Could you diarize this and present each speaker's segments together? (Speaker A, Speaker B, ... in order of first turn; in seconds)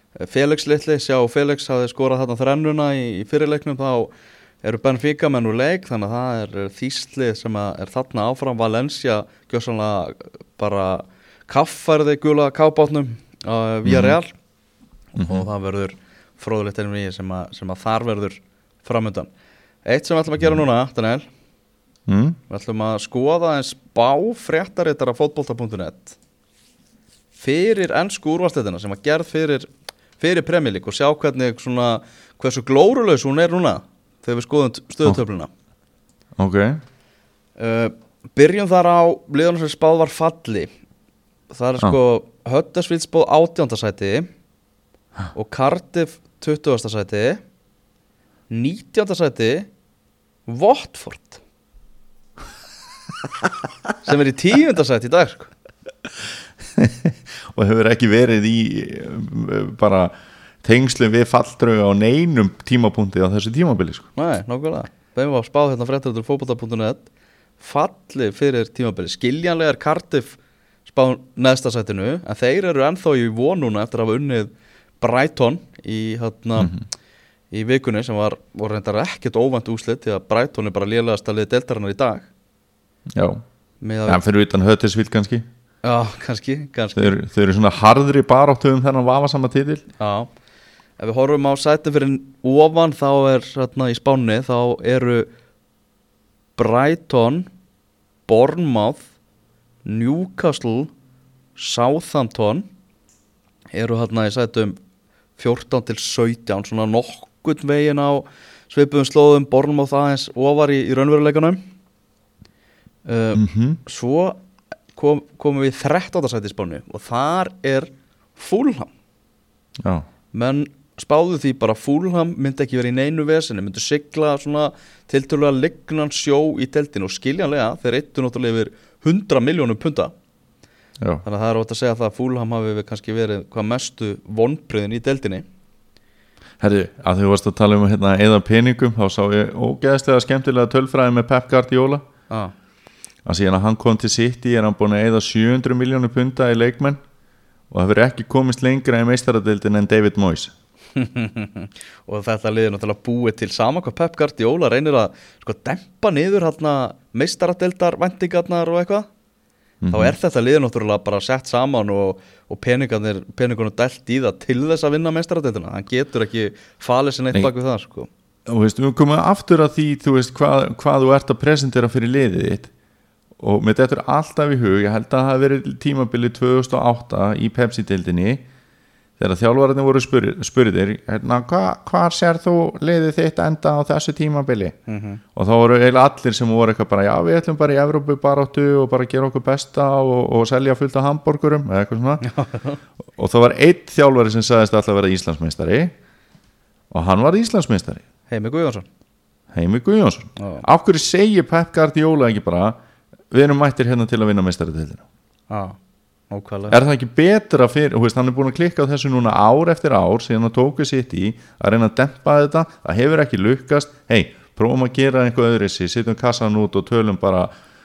Speaker A: 0.2-4.1, 4.6-14.3, 15.2-19.3, 19.9-21.3, 22.5-26.2, 27.4-29.7, 30.2-35.5, 37.6-40.7, 41.5-44.3, 45.3-47.4, 48.5-49.7, 50.5-51.4, 54.0-55.5, 64.2-67.0, 67.6-76.8, 77.5-82.3, 83.8-84.2, 85.8-87.2, 90.0-90.3, 91.0-95.3, 96.6-97.5, 98.3-99.1, 99.8-100.9, 101.6-102.7, 103.7-104.8, 105.4-111.6, 113.1-114.4, 115.0-118.9, 120.3-130.1, 131.2-135.5, 151.0-159.1, 159.9-168.1, 184.9-185.2, 192.2-192.8, 198.3-198.9, 200.4-200.7, 205.5-205.8, 206.3-206.8
Speaker B: 13.8-14.2, 15.2-15.5, 22.1-22.4, 36.4-36.8, 56.8-60.1, 60.6-64.1, 76.6-76.8, 83.1-83.4, 84.1-85.5, 87.0-89.8, 113.3-113.8, 119.8-120.1, 136.6-142.0, 143.2-147.0, 147.7-150.5, 159.8-160.2, 168.5-172.7, 173.4-178.4, 179.2-184.8, 185.3-192.3, 193.2-195.9, 196.9-198.0, 199.5-202.8, 203.3-205.0, 206.7-217.5